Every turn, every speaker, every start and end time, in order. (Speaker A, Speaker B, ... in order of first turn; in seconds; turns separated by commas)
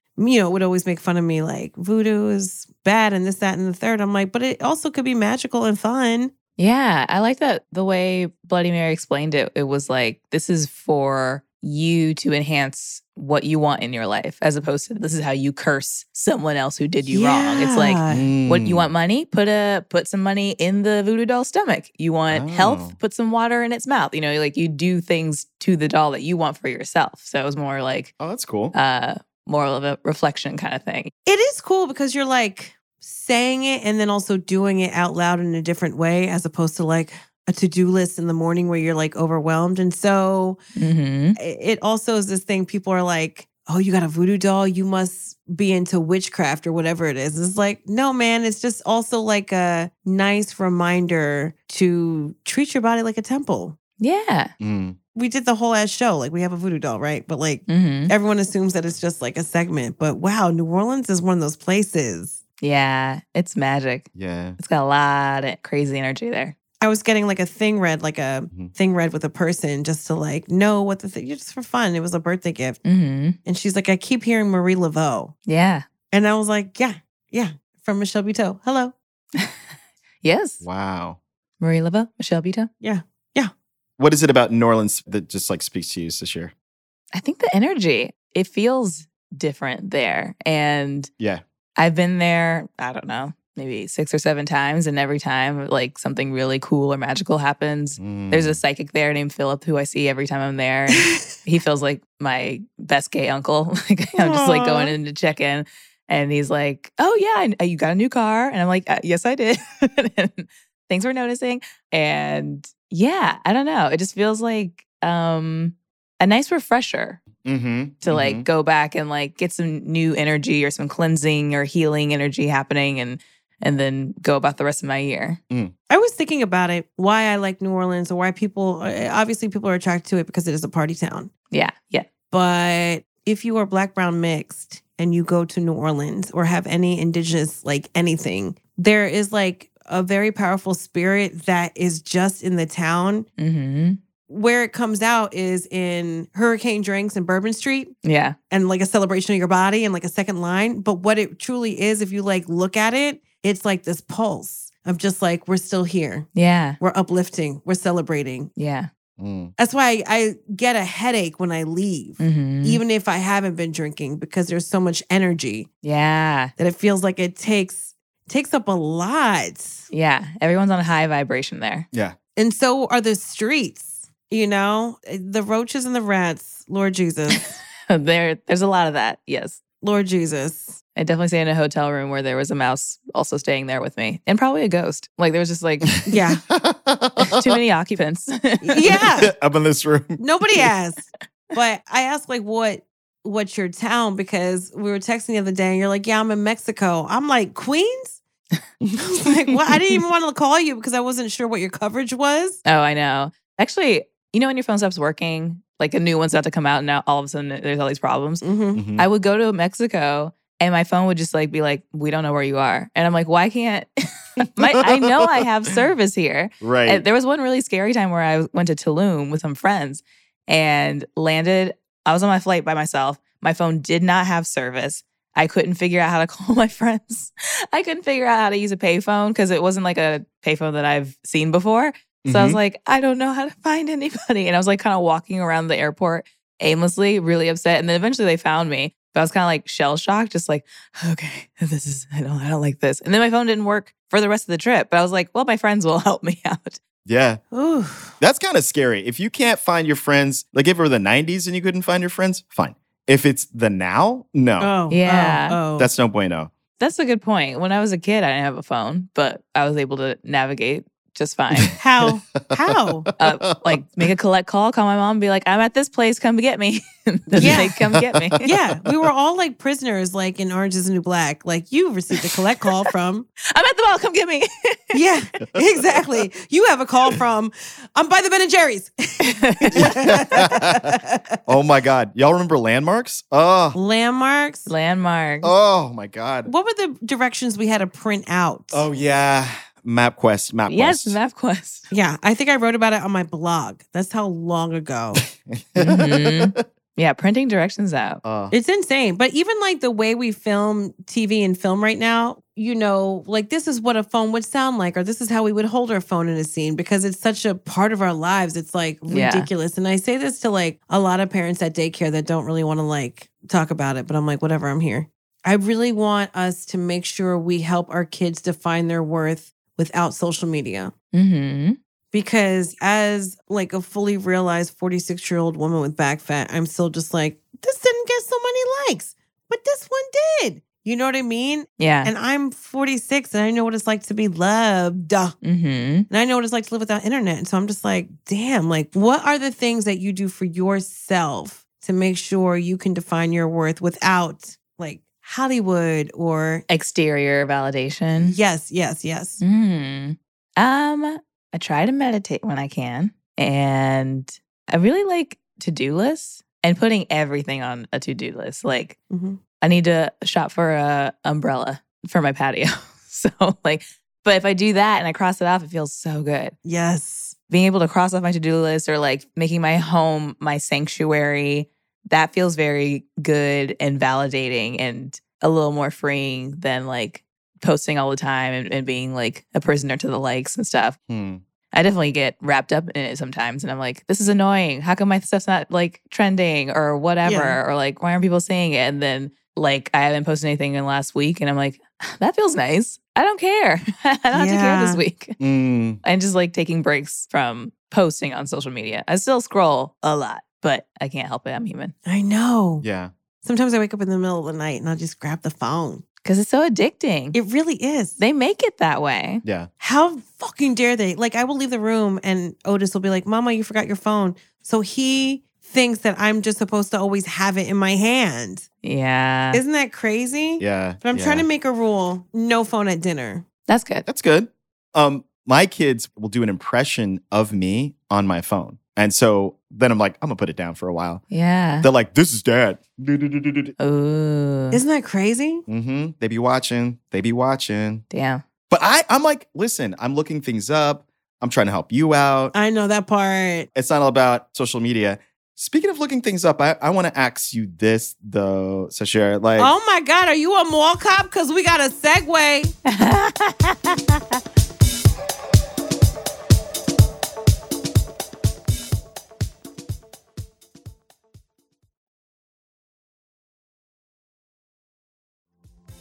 Speaker A: 0.2-6.3, Speaker B: 6.6-28.1, Speaker A: 17.1-18.3, Speaker C: 18.1-18.9, Speaker C: 22.3-22.9, Speaker C: 28.2-28.7, Speaker B: 28.7-31.1, Speaker A: 31.2-40.6, Speaker B: 40.8-41.4, Speaker A: 41.4-53.8, Speaker B: 54.0-54.5, Speaker C: 54.6-55.0, Speaker A: 55.1-62.4, Speaker B: 57.7-58.1, Speaker B: 62.6-64.1, Speaker C: 64.1-64.6, Speaker B: 64.6-66.5, Speaker A: 66.8-72.8, Speaker B: 72.8-73.4, Speaker A: 73.4-75.3, Speaker B: 75.5-75.8, Speaker A: 76.1-78.9, Speaker B: 80.2-80.6, Speaker C: 80.6-81.2, Speaker B: 81.6-82.7, Speaker A: 82.8-83.5, Speaker C: 84.0-86.5, Speaker B: 87.1-91.1, Speaker B: 91.8-117.2, Speaker C: 98.0-98.6, Speaker A: 104.2-104.9, Speaker C: 117.4-118.5, Speaker B: 118.0-125.4, Speaker A: 125.9-131.3, Speaker B: 131.5-132.1, Speaker A: 132.3-143.3, Speaker B: 143.4-144.0, Speaker A: 144.3-147.9, Speaker B: 148.0-148.3, Speaker A: 148.5-156.3, Speaker B: 156.3-156.8, Speaker A: 156.8-158.5, Speaker B: 158.6-158.9, Speaker C: 159.2-159.5, Speaker A: 159.6-165.7, Speaker B: 162.2-162.8, Speaker B: 165.8-166.5, Speaker A: 166.6-169.9, Speaker B: 169.9-171.8, Speaker A: 172.3-177.6, Speaker B: 177.3-179.6, Speaker A: 179.8-180.8, Speaker B: 180.9-186.0, Speaker C: 186.0-187.6, Speaker A: 186.1-186.4, Speaker B: 187.2-189.1, Speaker A: 188.6-189.3, Speaker C: 189.2-190.2, Speaker A: 190.2-198.2, Speaker A: 199.0-202.6, Speaker B: 202.6-208.4, Speaker A: 208.4-208.8, Speaker C: 208.7-209.1, Speaker B: 209.0-246.8, Speaker C: 214.9-215.4, Speaker C: 216.6-217.0, Speaker C: 232.2-232.6, Speaker C: 247.0-247.4, Speaker A: 247.5-248.1, Speaker C: 248.2-254.7, Speaker A: 254.6-255.9, Speaker B: 254.9-255.6, Speaker C: 255.8-256.5, Speaker B: 256.8-261.8, Speaker C: 261.5-263.8, Speaker A: 261.8-263.1, Speaker B: 263.2-268.5, Speaker C: 267.3-268.5, Speaker A: 267.4-267.7, Speaker A: 268.4-273.3, Speaker B: 273.5-275.0, Speaker A: 274.9-281.2, Speaker C: 275.4-276.0, Speaker B: 279.2-279.9, Speaker C: 279.7-280.9, Speaker C: 281.4-283.8, Speaker A: 283.7-284.7, Speaker B: 284.7-285.5, Speaker C: 285.4-286.5, Speaker A: 286.4-288.9, Speaker C: 288.7-291.2, Speaker B: 290.7-291.9, Speaker A: 291.9-295.2, Speaker C: 295.3-296.6, Speaker B: 295.8-298.2, Speaker C: 298.2-298.5, Speaker A: 298.5-320.9, Speaker B: 309.1-309.5, Speaker B: 321.1-321.8, Speaker A: 322.1-335.4, Speaker B: 331.8-332.1, Speaker B: 335.4-336.1, Speaker A: 336.1-346.6, Speaker B: 346.7-348.4, Speaker A: 348.2-349.4, Speaker B: 349.4-359.0, Speaker A: 359.1-359.4, Speaker B: 359.6-366.5, Speaker A: 366.6-367.3, Speaker B: 367.5-381.0, Speaker C: 381.1-381.4, Speaker B: 381.7-395.4, Speaker A: 387.2-387.6, Speaker A: 394.3-395.0, Speaker C: 395.4-396.0, Speaker B: 396.0-401.9, Speaker A: 402.1-402.8, Speaker C: 402.8-403.1, Speaker A: 403.4-406.0, Speaker B: 406.2-407.4, Speaker A: 407.3-408.2, Speaker B: 408.2-409.4, Speaker C: 409.4-409.7, Speaker A: 409.8-418.7, Speaker B: 418.8-419.6, Speaker A: 419.5-423.4, Speaker C: 420.6-421.4, Speaker B: 423.7-424.1, Speaker C: 424.1-431.2, Speaker B: 431.3-431.9, Speaker C: 431.8-433.7, Speaker B: 433.8-434.8, Speaker A: 434.7-435.6, Speaker C: 435.7-438.0, Speaker B: 438.1-438.4, Speaker C: 438.7-442.5, Speaker A: 442.5-443.7, Speaker C: 443.7-449.7, Speaker A: 449.6-452.7, Speaker B: 452.9-454.2